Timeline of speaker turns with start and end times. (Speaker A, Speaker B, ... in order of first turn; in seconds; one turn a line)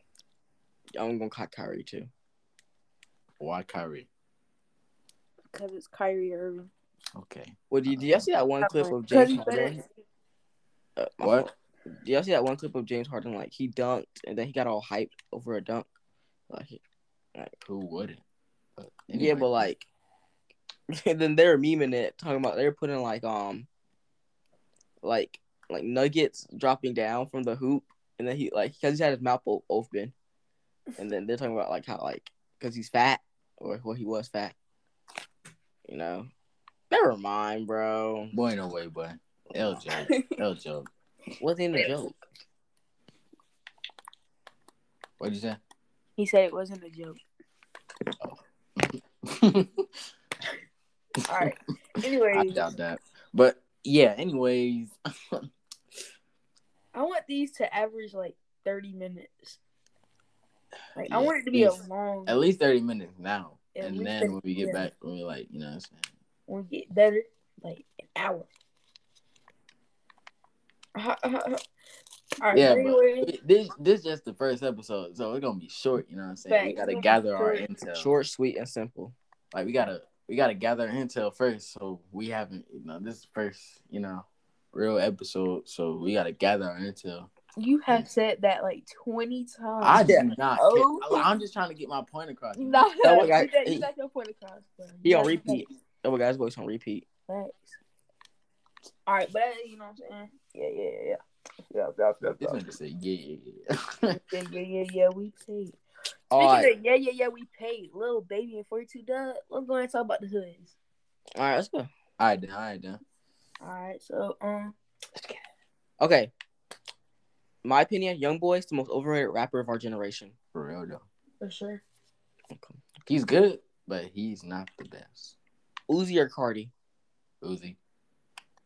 Speaker A: 0.9-2.1
Speaker B: 3.4-4.1
Speaker C: 5.5-6.7
Speaker B: 7.1-8.3
Speaker A: 7.7-9.8
Speaker C: 8.6-9.8
Speaker A: 11.0-11.5
Speaker B: 11.2-11.5
Speaker A: 12.0-15.9
Speaker A: 16.5-16.8
Speaker B: 17.6-18.2
Speaker B: 18.8-19.7
Speaker A: 19.1-19.9
Speaker A: 20.9-23.7
Speaker A: 25.0-30.1
Speaker A: 31.0-34.5
Speaker A: 35.9-36.3
Speaker A: 36.9-38.3
Speaker B: 38.3-40.9
Speaker C: 40.0-40.4
Speaker A: 41.4-42.2
Speaker B: 45.2-45.6
Speaker C: 46.2-47.2
Speaker B: 48.2-49.9
Speaker C: 51.2-52.7
Speaker B: 52.3-55.4
Speaker C: 56.9-59.6
Speaker C: 61.0-62.5
Speaker B: 61.0-66.1
Speaker C: 63.7-64.8
Speaker C: 66.5-68.5
Speaker C: 70.9-71.6
Speaker C: 72.4-73.3
Speaker B: 72.5-78.1
Speaker C: 76.5-77.7
Speaker A: 77.9-79.1
Speaker B: 79.5-87.3
Speaker C: 87.5-91.3
Speaker B: 89.8-93.3
Speaker A: 89.9-90.3
Speaker C: 92.5-95.7
Speaker A: 93.0-93.9
Speaker A: 95.0-97.0
Speaker C: 97.3-97.8
Speaker C: 99.1-101.2
Speaker C: 101.7-102.6
Speaker B: 102.4-104.2
Speaker C: 104.1-105.8
Speaker A: 106.3-106.7
Speaker C: 106.3-110.7
Speaker A: 111.3-111.9
Speaker B: 112.2-113.0
Speaker C: 113.6-114.8
Speaker A: 116.0-116.3
Speaker A: 117.6-120.3
Speaker B: 120.5-121.0
Speaker C: 121.4-121.8
Speaker A: 122.5-122.8
Speaker B: 123.0-125.3
Speaker A: 125.9-126.7
Speaker B: 127.4-127.8